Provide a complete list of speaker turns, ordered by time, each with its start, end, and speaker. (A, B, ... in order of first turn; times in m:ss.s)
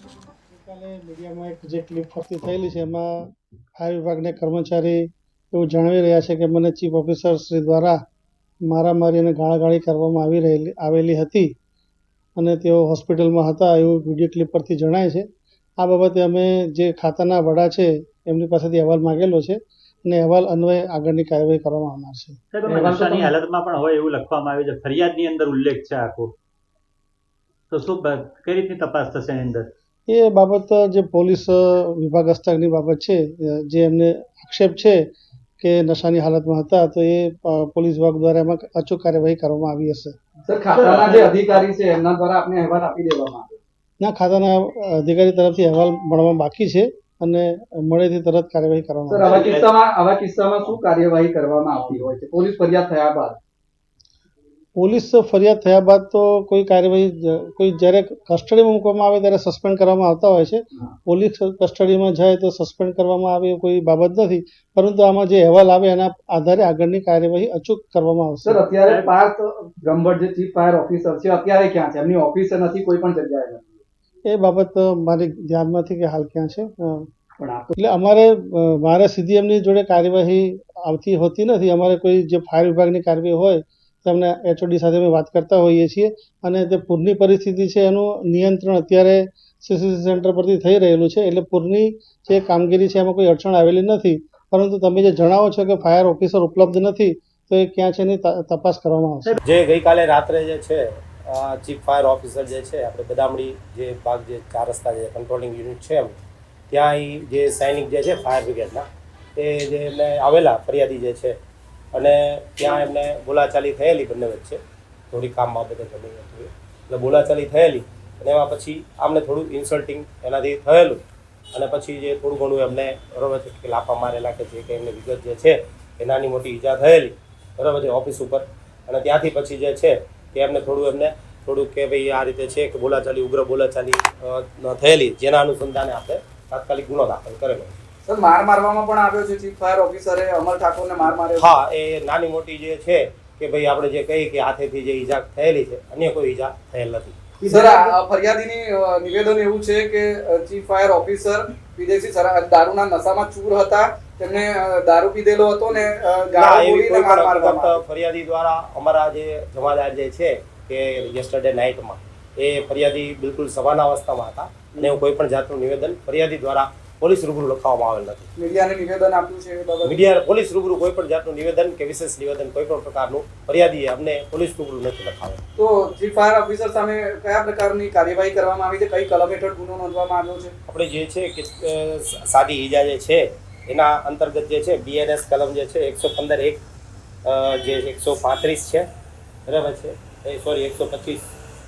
0:00.5-0:08.0 A
0:08.7-0:11.5 A
0:12.4-0:15.2 A
0:15.8-0:22.4 A
0:22.5-0:26.3 B
0:22.7-0:23.3 C
0:27.7-0:29.7 B
0:30.1-0:35.0 A
0:35.6-0:40.1 A
0:40.5-0:43.6 C
0:40.7-0:41.6 B
0:44.0-0:49.4 A
0:49.1-0:53.4 C
0:49.2-0:49.7 B
0:54.8-1:08.6 A
1:08.4-1:13.8 C
1:08.8-1:09.1 B
1:14.2-1:17.1 A
1:17.4-1:17.7 C
1:17.7-1:39.4 A
1:39.4-1:46.2 D
1:46.7-1:51.4 D
1:51.9-2:01.0 D
2:01.5-2:17.8 D
2:18.0-2:21.5 C
2:21.4-2:27.3 D
2:27.4-2:37.8 C
2:36.4-2:48.3 D
2:48.4-2:50.1 C
2:49.8-2:55.4 D
2:55.6-3:00.5 C
3:00.7-3:06.6 D
3:07.2-3:08.9 D
3:09.5-3:11.2 D